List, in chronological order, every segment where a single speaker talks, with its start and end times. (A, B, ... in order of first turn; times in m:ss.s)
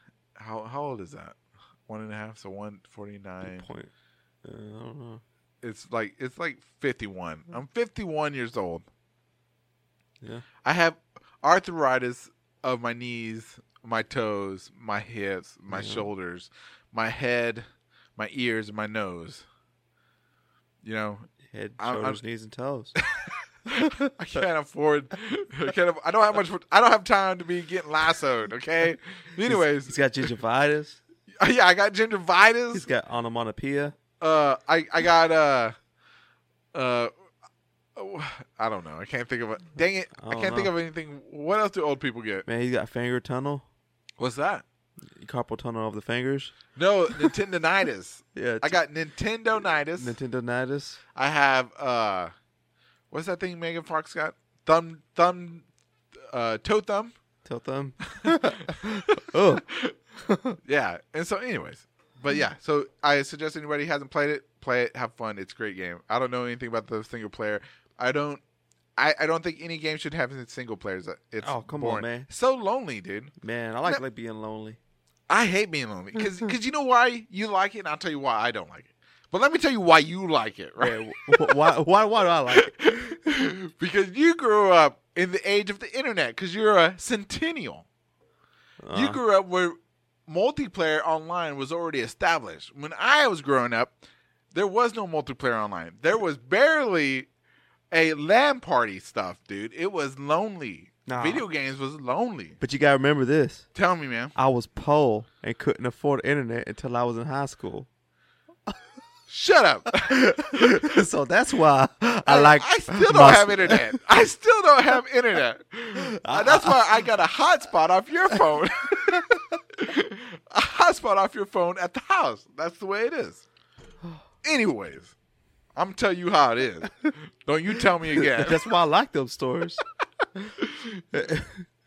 0:00.4-0:01.4 A
0:01.9-0:03.7 A
0:03.4-0:03.9 B
0:04.4-0:05.2 B
0:05.6-0:08.8 A
0:10.6-0:17.6 A
0:15.7-0:16.1 B
0:18.2-0:19.4 A
0:20.8-0:22.2 A
0:21.4-0:22.9 B
0:23.2-0:30.0 A
0:29.4-0:31.0 B
0:31.4-0:32.9 A
0:32.7-0:34.0 B
0:34.2-0:35.7 A
0:36.7-0:37.1 A
0:38.0-0:42.4 A
0:40.2-0:40.7 B
0:42.4-0:43.6 B
0:44.2-0:44.6 A
0:45.1-0:46.5 B
0:46.8-0:50.1 A
0:48.3-0:48.8 B
0:50.0-0:51.0 B
0:51.2-0:52.3 A
0:53.1-0:55.6 A
0:56.3-0:57.1 A
0:57.4-0:59.6 B
0:58.1-0:58.8 A
1:00.2-1:00.6 B
1:00.6-1:08.4 A
1:09.0-1:13.3 A
1:11.4-1:12.3 B
1:13.4-1:14.8 B
1:15.3-1:21.7 A
1:20.8-1:23.1 B
1:22.5-1:27.8 A
1:28.8-1:29.2 B
1:28.9-1:29.8 A
1:30.3-1:34.0 A
1:34.5-1:37.3 A
1:37.9-1:42.6 A
1:41.0-1:41.4 B
1:42.6-1:43.7 B
1:43.7-1:44.3 A
1:44.3-1:47.9 B
1:49.3-1:50.3 A
1:49.9-1:54.0 B
1:52.3-2:03.4 A
1:56.0-1:56.8 B
1:59.1-1:59.4 B
2:04.4-2:05.1 A
2:05.7-2:08.6 A
2:08.2-2:09.8 B
2:10.6-2:10.9 A
2:11.1-2:11.6 B